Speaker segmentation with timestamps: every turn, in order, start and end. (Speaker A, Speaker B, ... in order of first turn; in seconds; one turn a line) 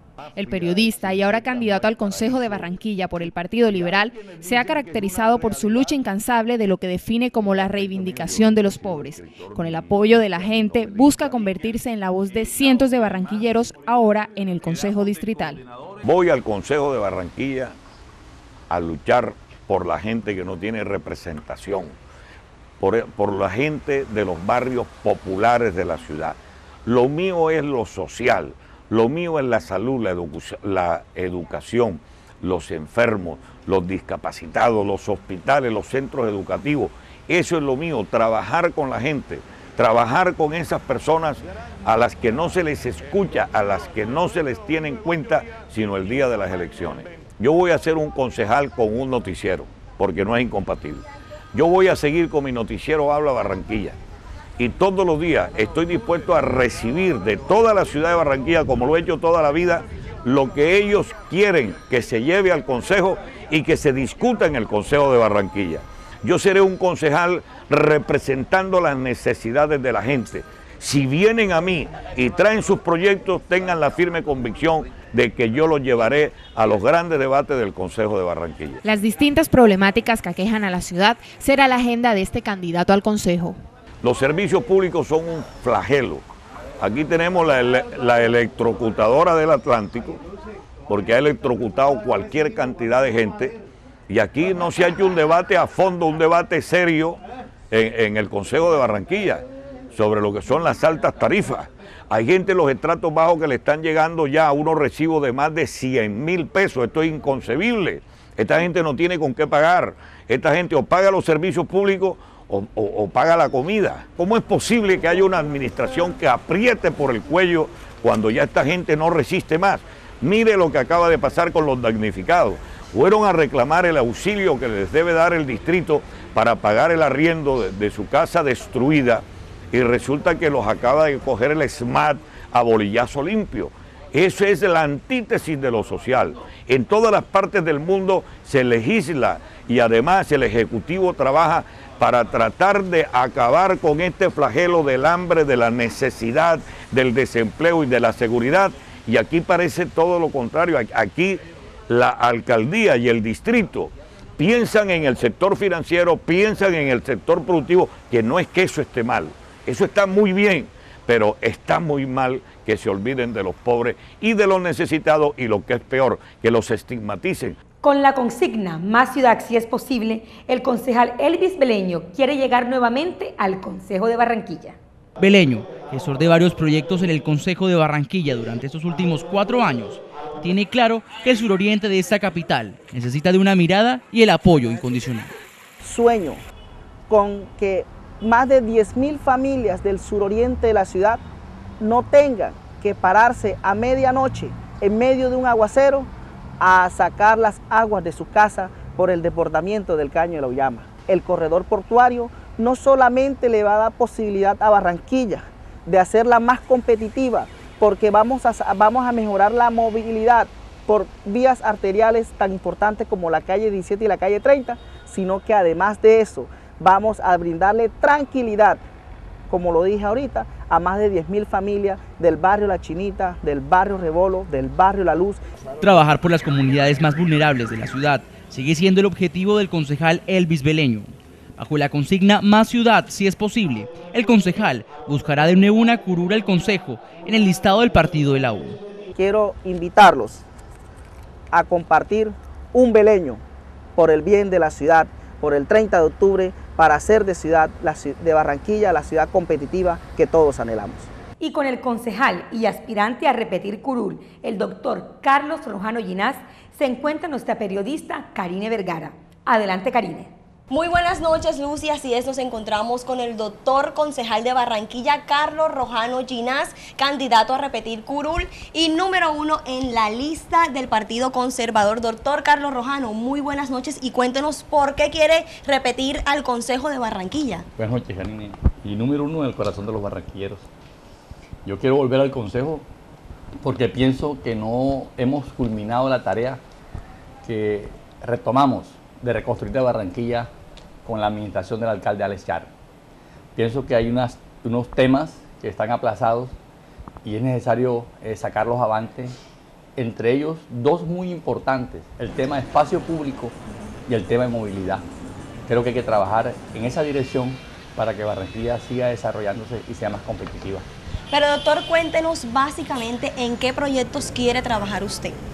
Speaker A: 0.3-15.6
Speaker B: 16.0-17.8
Speaker B: 18.7-21.9
Speaker B: 22.8-54.0
Speaker B: 54.6-78.8
Speaker A: 78.8-83.6
Speaker B: 84.0-86.2
Speaker B: 86.8-90.2
Speaker B: 90.9-93.6
Speaker B: 94.1-167.6
Speaker C: 167.8-174.8
Speaker D: 175.2-185.3
Speaker E: 185.8-186.4
Speaker E: 187.1-191.2
Speaker E: 191.8-196.1
Speaker E: 196.6-218.8
Speaker E: 219.5-225.4
Speaker D: 225.8-238.8
Speaker E: 239.1-240.4
Speaker E: 241.5-243.4
Speaker E: 243.9-251.1
Speaker C: 251.4-260.3
Speaker F: 260.7-277.6
Speaker G: 277.8-280.7
Speaker G: 281.6-282.8
Speaker G: 283.6-286.6
Speaker G: 287.4-290.5
Speaker G: 291.1-292.7
Speaker G: 293.6-296.6
Speaker G: 297.2-299.4
Speaker G: 300.0-303.6
Speaker G: 304.1-305.1
Speaker G: 305.7-310.9
Speaker F: 311.3-315.4